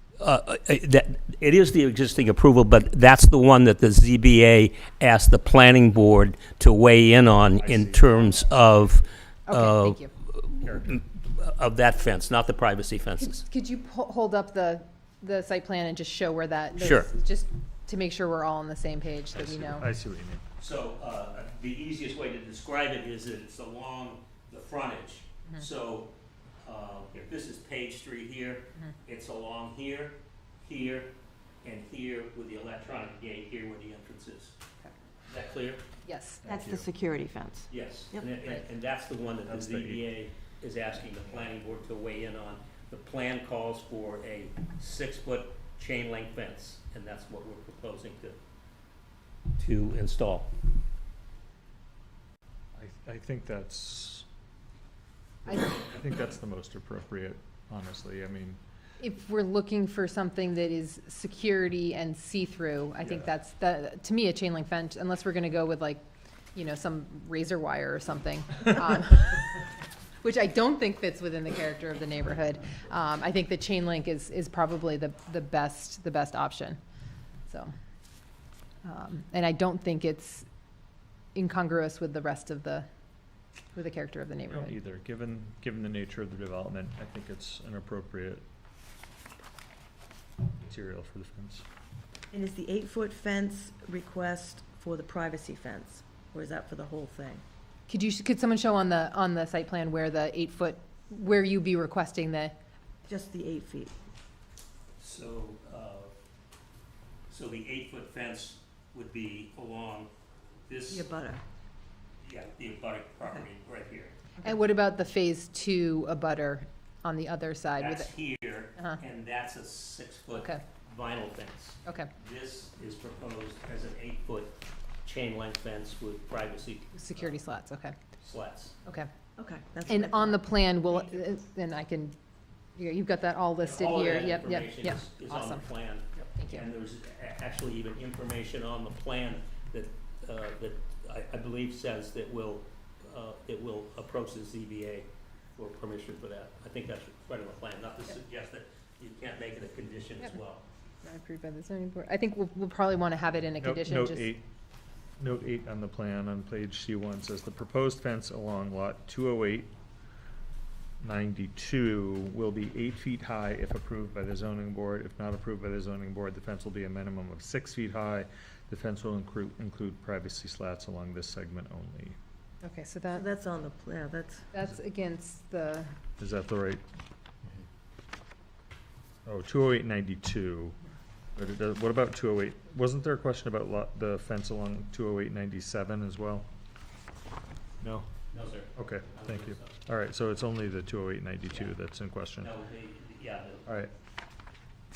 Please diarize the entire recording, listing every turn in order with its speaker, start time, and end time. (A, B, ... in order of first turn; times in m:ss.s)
0:00.2-0:13.4 A
0:07.5-0:09.0 B
0:09.5-0:10.1 C
0:10.5-0:11.0 B
0:13.2-0:19.9 C
0:16.8-0:17.1 A
0:19.3-0:20.4 B
0:20.6-0:31.1 A
0:31.6-0:34.5 A
0:35.3-0:35.9 A
0:36.0-0:36.4 C
0:36.4-0:36.9 B
0:36.4-0:38.3 D
0:37.7-0:48.4 A
0:39.5-0:40.0 B
0:49.6-0:50.5 A
0:52.8-0:54.2 B
0:55.4-0:58.6 B
0:59.0-1:09.6 C
1:03.0-1:03.3 B
1:10.2-1:16.8 C
1:18.8-1:20.4 C
1:21.3-1:22.8 C
1:23.7-1:24.8 C
1:24.5-1:28.4 B
1:30.6-1:31.6 B
1:32.3-1:37.4 D
1:37.9-1:42.6 C
1:43.1-1:44.0 D
1:45.0-1:46.1 A
1:47.3-1:50.1 A
1:50.7-1:51.1 A
1:50.9-1:51.4 D
1:52.2-1:54.1 A
1:54.4-1:58.1 C
1:57.8-2:07.4 A
2:00.3-2:00.6 C
2:06.9-2:08.0 C
2:08.2-2:08.8 A
2:09.4-2:10.6 D
2:09.9-2:12.2 C
2:12.8-2:15.6 C
2:13.6-2:30.6 A
2:16.2-2:16.7 C
2:31.0-2:34.3 C
2:33.6-2:34.4 B
2:35.2-2:39.7 B
2:41.0-2:52.2 B
2:52.6-2:53.2 C
2:53.1-2:54.4 D
2:54.5-2:55.9 C
2:56.2-2:56.8 B
2:59.2-3:00.8 B
3:01.4-3:06.5 B
3:07.8-3:08.1 B
3:08.3-3:09.7 A
3:08.7-3:12.5 B
3:12.4-3:13.6 A
3:13.6-3:13.9 B